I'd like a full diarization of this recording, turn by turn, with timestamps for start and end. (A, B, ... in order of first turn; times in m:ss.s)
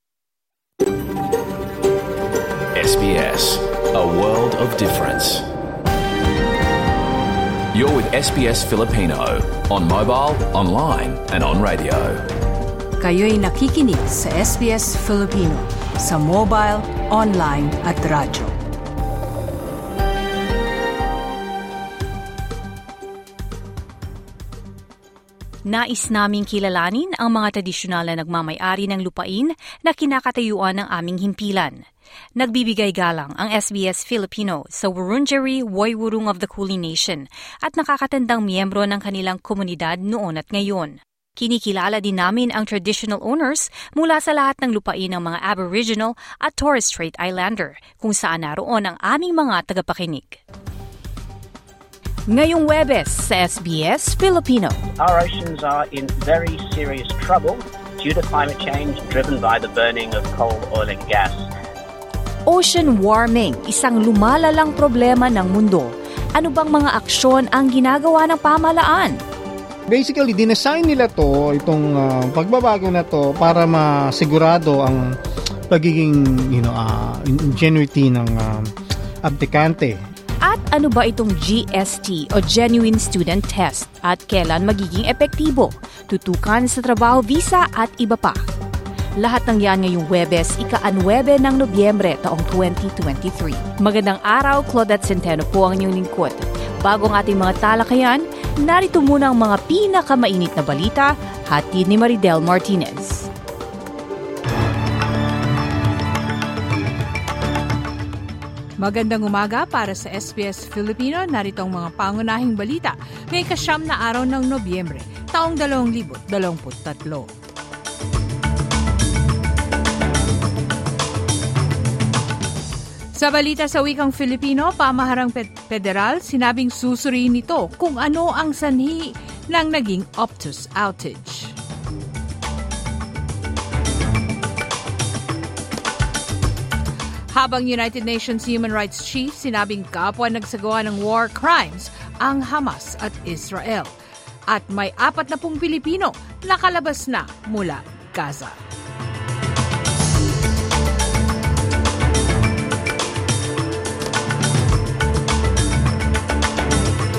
0:02.7-0:05.4 A
0:07.7-0:12.2 A
0:13.0-0:18.5 B
0:25.6-0:31.8 C
0:32.4-0:50.4 C
0:52.3-0:54.8 C
0:55.0-1:01.5 D
1:02.5-1:09.2 C
1:09.9-1:15.1 E
1:15.7-1:18.7 E
1:19.2-1:20.0 E
1:20.4-1:28.4 C
1:29.2-1:43.3 C
1:48.8-1:57.3 B
2:03.1-2:11.6 B
2:17.3-2:23.9 B
2:24.5-2:28.6 B